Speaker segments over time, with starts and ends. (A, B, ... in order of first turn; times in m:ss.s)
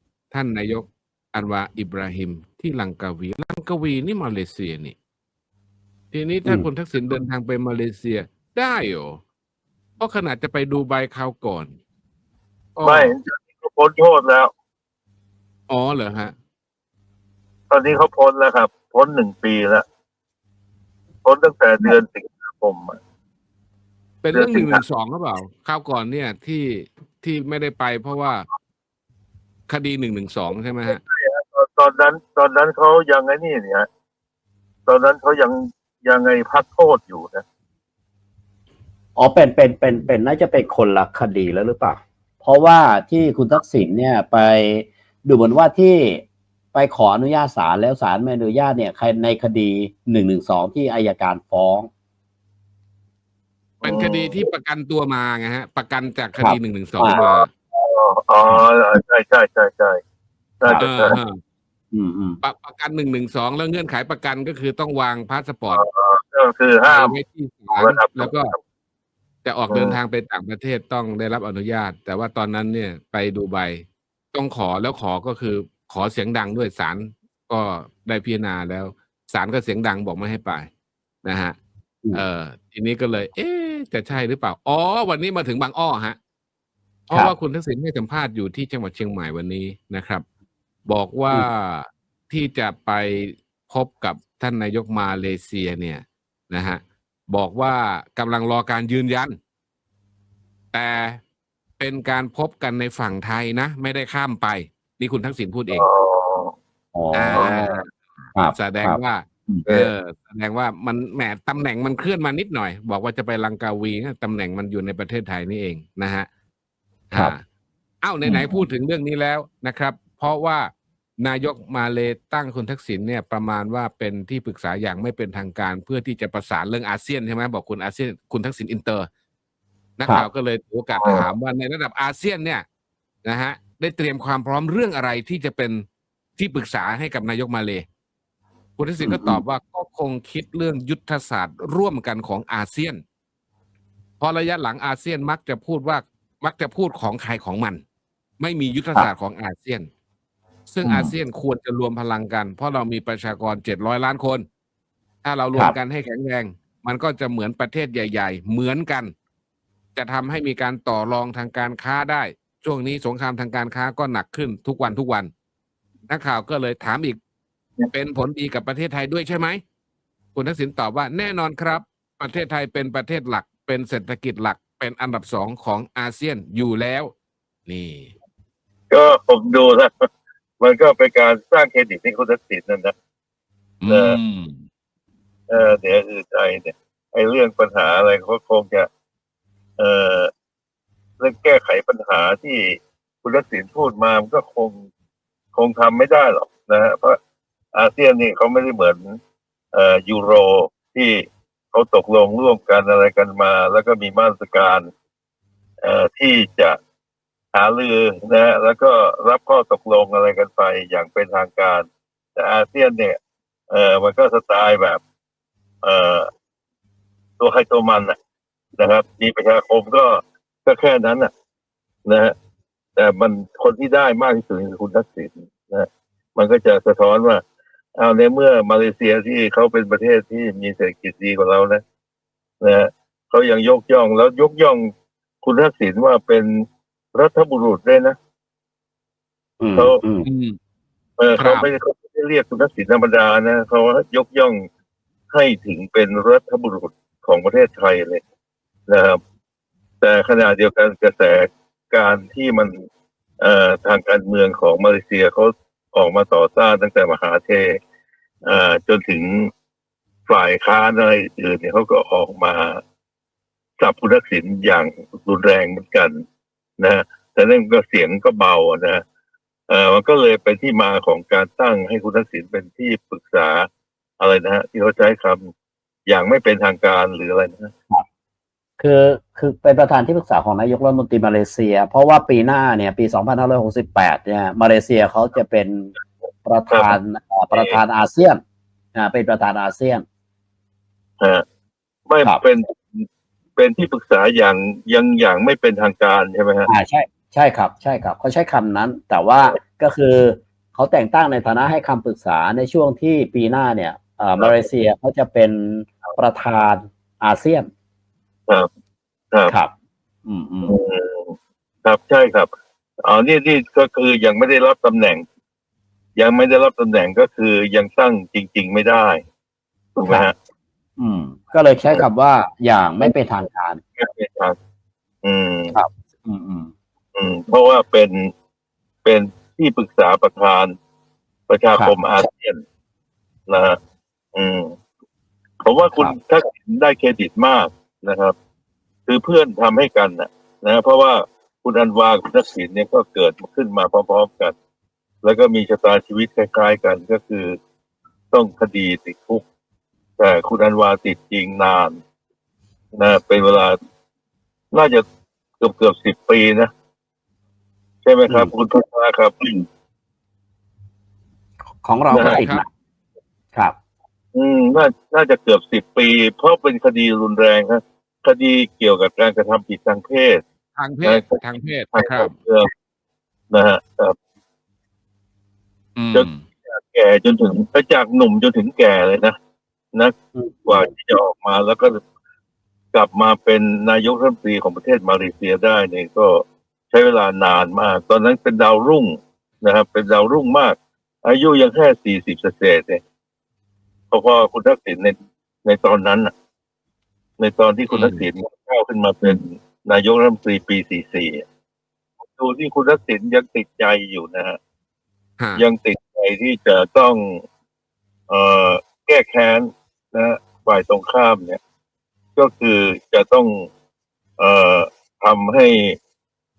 0:00.3-0:05.0 A
0:06.1-0:09.2 A
0:10.0-0:11.7 A
0:12.8-0:13.1 A
0:12.8-0:14.5 B
0:15.7-0:16.3 A
0:17.7-0:19.8 B
0:21.2-0:23.0 B
0:24.2-0:28.5 A
0:24.3-0:24.8 B
0:29.7-0:31.0 A
0:30.7-0:33.9 B
0:34.9-0:37.4 B
0:39.2-0:51.9 C
0:53.8-0:54.5 B
0:53.8-0:57.5 A
0:56.4-0:57.2 C
0:57.1-1:00.0 B
1:00.6-1:01.2 B
1:00.8-1:01.4 A
1:01.9-1:02.4 C
1:02.4-1:05.8 A
1:05.7-1:07.2 B
1:06.8-1:08.6 A
1:07.8-1:08.6 B
1:09.4-1:20.7 A
1:09.7-1:10.0 B
1:21.2-1:21.6 A
1:22.1-1:26.2 A
1:27.1-1:30.2 A
1:30.9-1:39.4 A
1:40.7-1:41.2 A
1:41.8-1:45.8 A
1:45.7-1:46.5 B
1:47.0-1:47.7 C
1:47.1-1:47.9 A
1:47.3-1:47.7 B
1:48.4-1:49.9 C
1:48.5-1:56.3 A
1:57.1-1:57.4 A
1:58.0-2:00.7 A
1:58.2-1:58.6 C
2:01.2-2:09.1 A
2:10.0-2:12.6 A
2:11.0-2:11.3 B
2:13.2-2:15.8 A
2:16.4-2:17.8 A
2:18.8-2:23.0 A
2:19.0-2:19.4 C
2:24.2-2:27.8 A
2:28.4-2:29.9 A
2:30.7-2:34.4 A
2:30.8-2:31.1 C
2:35.2-2:39.1 A
2:40.0-2:45.3 A
2:46.1-2:47.2 A
2:47.9-2:49.6 A
2:50.4-2:57.1 A
2:57.7-2:58.1 A
2:58.9-3:00.1 B
3:00.6-3:02.9 B
3:03.8-3:04.6 A
3:03.9-3:04.2 B
3:05.5-3:08.9 B
3:09.8-3:10.3 B
3:11.2-3:14.8 B
3:15.5-3:17.2 B
3:17.7-3:19.2 B
3:19.7-3:24.9 B
3:25.8-3:26.8 B
3:27.5-3:33.2 B
3:33.7-3:35.0 B
3:35.8-3:36.3 B
3:37.4-3:38.2 B
3:38.8-3:41.3 B
3:42.1-3:42.4 B
3:43.0-3:47.4 B
3:48.0-3:51.8 B
3:52.6-3:54.9 B
3:55.4-3:58.2 B
3:59.6-4:00.3 C
3:59.8-4:00.0 B
4:00.2-4:00.6 A
4:01.2-4:04.7 B
4:01.4-4:01.7 A
4:05.3-4:08.2 B
4:08.9-4:09.2 B
4:10.0-4:12.7 B
4:13.4-4:17.8 B
4:18.4-4:19.5 B
4:20.3-4:22.8 B
4:23.8-4:26.2 B
4:26.8-4:29.0 B
4:29.7-4:33.7 B
4:34.2-4:35.5 B
4:36.1-4:37.7 B
4:38.8-4:45.9 C
4:46.4-4:48.4 C
4:46.7-4:47.0 B
4:47.5-4:47.8 B
4:49.0-4:50.0 C
4:51.2-4:51.4 B
4:52.1-4:56.7 B
4:56.7-5:07.7 C
5:10.3-5:10.8 C
5:10.7-5:11.3 B
5:11.8-5:12.5 B
5:13.0-5:15.2 B
5:16.2-5:19.2 B
5:20.0-5:20.4 B
5:21.0-5:23.8 C
5:24.0-5:24.6 B
5:25.2-5:25.8 B
5:25.7-5:26.7 C
5:27.2-5:28.3 B
5:29.0-5:30.8 B
5:31.5-5:32.6 B
5:33.5-5:33.8 B
5:34.4-5:34.8 B
5:35.6-5:38.4 B
5:39.1-5:44.6 B
5:45.2-5:47.6 B
5:48.3-5:49.4 B
5:50.2-5:52.0 B
5:53.0-5:53.8 B
5:54.7-5:55.0 B
5:55.6-5:56.7 B
5:58.0-5:59.6 B
6:01.8-6:02.7 C
6:02.1-6:02.4 B
6:02.1-6:02.6 A
6:04.4-6:10.4 B
6:10.8-6:12.4 A
6:11.0-6:11.4 B
6:11.9-6:12.7 B
6:13.5-6:14.2 B
6:16.0-6:16.4 A
6:16.1-6:19.4 B
6:20.4-6:20.9 C
6:20.7-6:22.0 B
6:22.9-6:33.0 B
6:34.1-6:36.3 B
6:37.4-6:41.4 B
6:37.9-6:38.3 A
6:42.4-6:44.6 B
6:45.4-6:45.6 A
6:45.6-6:47.4 B
6:48.3-6:51.6 B
6:52.4-6:53.7 B
6:54.4-6:56.0 B